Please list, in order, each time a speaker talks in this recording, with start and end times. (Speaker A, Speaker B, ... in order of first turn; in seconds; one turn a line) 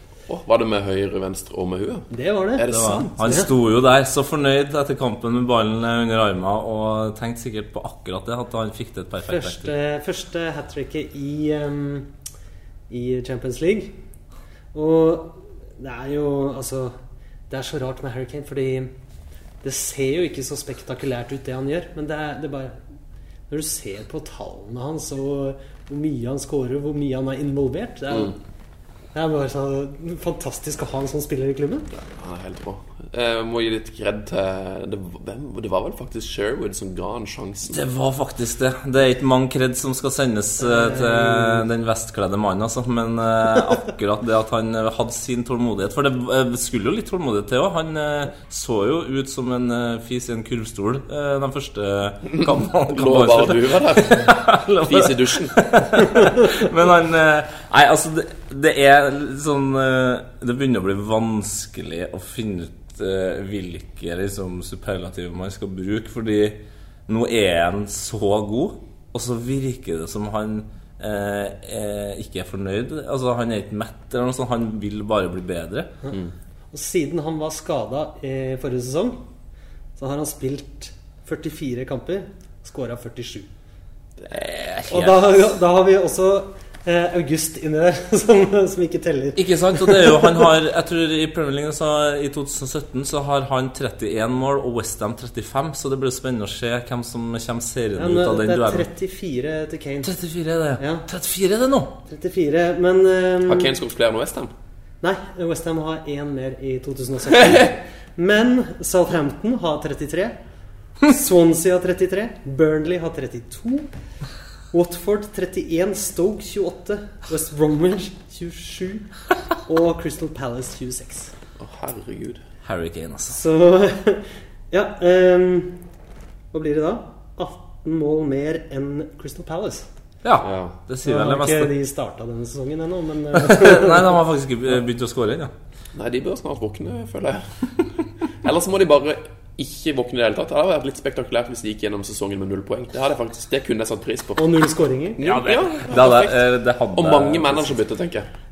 Speaker A: 0.3-3.4
Speaker B: 2.1-3.5
Speaker C: 2.7-9.7
Speaker B: 9.2-12.1
Speaker B: 12.9-14.0
Speaker B: 14.7-16.9
Speaker B: 17.5-18.9
Speaker B: 19.6-22.8
Speaker B: 23.5-28.4
Speaker B: 29.1-31.9
Speaker A: 32.0-37.8
Speaker C: 37.7-75.9
Speaker B: 40.6-41.6
Speaker A: 52.3-55.6
Speaker B: 76.7-79.2
Speaker B: 80.0-83.5
Speaker C: 84.3-85.3
Speaker B: 84.9-90.2
Speaker C: 89.3-98.9
Speaker B: 98.0-100.1
Speaker C: 100.0-102.0
Speaker B: 100.8-101.0
Speaker B: 102.1-103.7
Speaker A: 103.5-104.5
Speaker B: 105.0-110.3
Speaker B: 111.0-113.9
Speaker B: 114.7-121.3
Speaker A: 121.6-122.4
Speaker C: 122.6-123.4
Speaker B: 123.3-125.8
Speaker B: 126.5-129.9
Speaker C: 130.2-131.7
Speaker A: 130.4-130.8
Speaker B: 131.0-134.2
Speaker C: 133.3-135.5
Speaker A: 135.9-137.7
Speaker A: 138.4-144.6
Speaker B: 144.4-145.4
Speaker A: 145.2-148.3
Speaker C: 145.2-147.7